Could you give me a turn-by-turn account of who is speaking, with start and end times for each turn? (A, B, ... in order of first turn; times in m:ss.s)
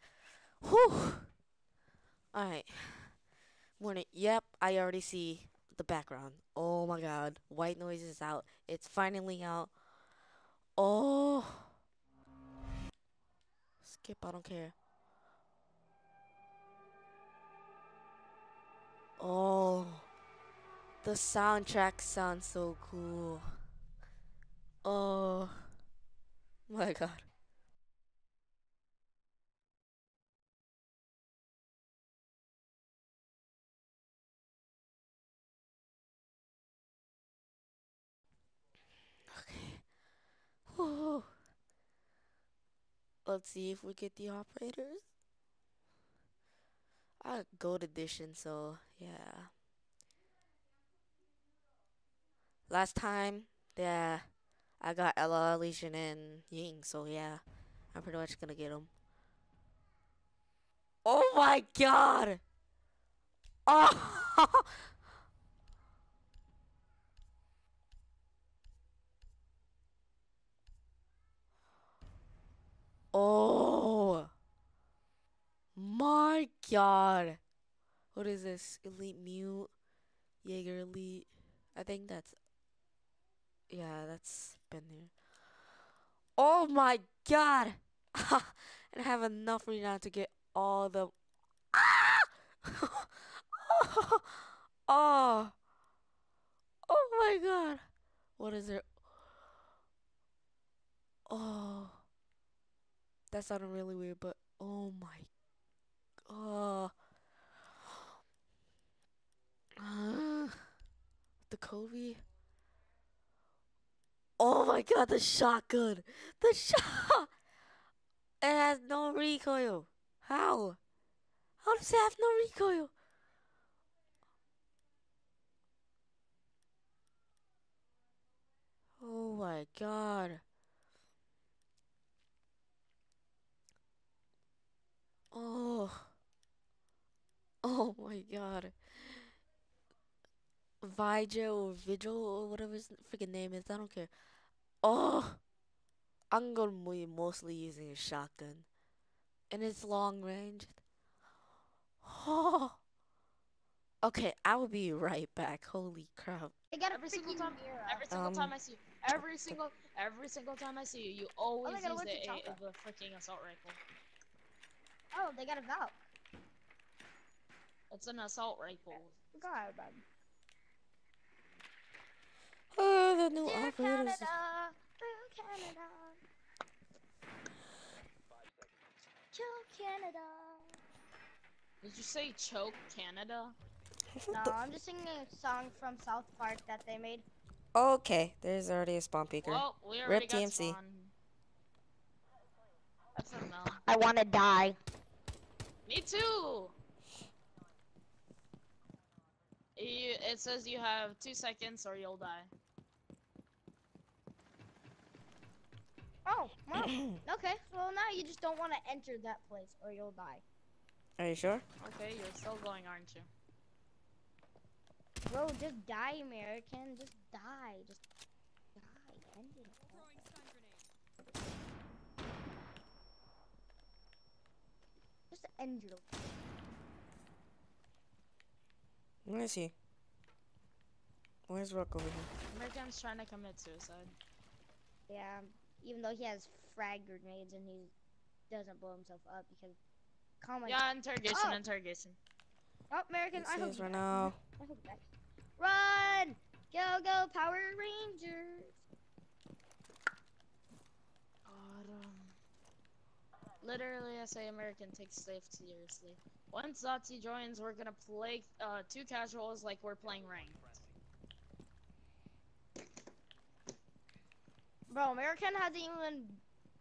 0:00.6-0:01.3 A
0:02.3-0:03.2 A
0:03.8-0:09.7 A
0:10.8-0:11.8 A
0:13.8-0:14.7 A
0:19.2-0:20.1 A
0:21.0-0:23.6 A
0:24.8-0:25.7 A
0:26.7-0:27.3 A
0:39.3-0:39.9 A
0:40.7-0:41.4 A
0:43.2-0:45.0 A
0:47.2-0:49.5 A
0:52.7-0:54.3 A
0:54.8-0:58.9 A
1:01.0-1:02.4 A
1:03.7-1:04.8 A
1:13.1-1:14.3 A
1:15.8-1:17.4 A
1:18.1-1:19.7 A
1:20.4-1:22.4 A
1:23.7-1:25.1 A
1:26.4-1:31.1 A
1:31.7-1:35.5 A
1:36.9-1:37.8 A
1:38.4-1:38.9 A
1:41.3-1:42.0 A
1:43.3-1:45.3 A
1:46.3-1:46.9 A
1:49.8-1:50.7 A
1:51.5-1:52.2 A
1:54.4-1:57.3 A
1:58.4-2:00.8 A
2:01.6-2:02.9 A
2:09.0-2:10.4 A
2:15.3-2:16.1 A
2:17.6-2:18.8 A
2:20.8-2:24.1 A
2:24.8-2:25.4 A
2:26.3-2:28.7 A
2:29.5-2:30.8 A
2:32.0-2:32.8 A
2:34.0-2:36.5 A
2:36.7-2:38.0 B
2:36.9-2:43.8 C
2:38.1-2:38.6 A
2:41.6-2:42.6 B
2:45.1-2:46.0 B
2:47.9-2:49.1 C
2:49.3-2:50.0 B
2:52.7-2:54.3 A
2:53.4-2:56.2 B
2:59.3-3:00.8 B
3:01.8-3:03.6 C
3:04.3-3:04.5 A
3:04.3-3:07.3 B
3:07.8-3:10.8 A
3:09.4-3:11.1 C
3:13.2-3:13.8 C
3:13.8-3:14.8 B
3:15.9-3:16.8 C
3:19.8-3:22.5 C
3:26.2-3:30.4 B
3:26.8-3:27.2 A
3:31.2-3:31.6 A
3:31.8-3:33.3 C
3:35.3-3:38.0 B
3:38.8-3:40.3 B
3:45.3-3:46.2 B
3:49.2-3:49.7 A
3:51.5-3:52.3 A
3:52.5-3:54.2 C
3:55.1-3:57.9 B
3:58.5-3:59.8 B
4:00.4-4:01.6 B
4:00.6-4:02.2 C
4:02.9-4:08.8 B
4:03.4-4:04.4 A
4:11.5-4:12.4 C
4:13.6-4:20.8 C
4:24.9-4:26.4 B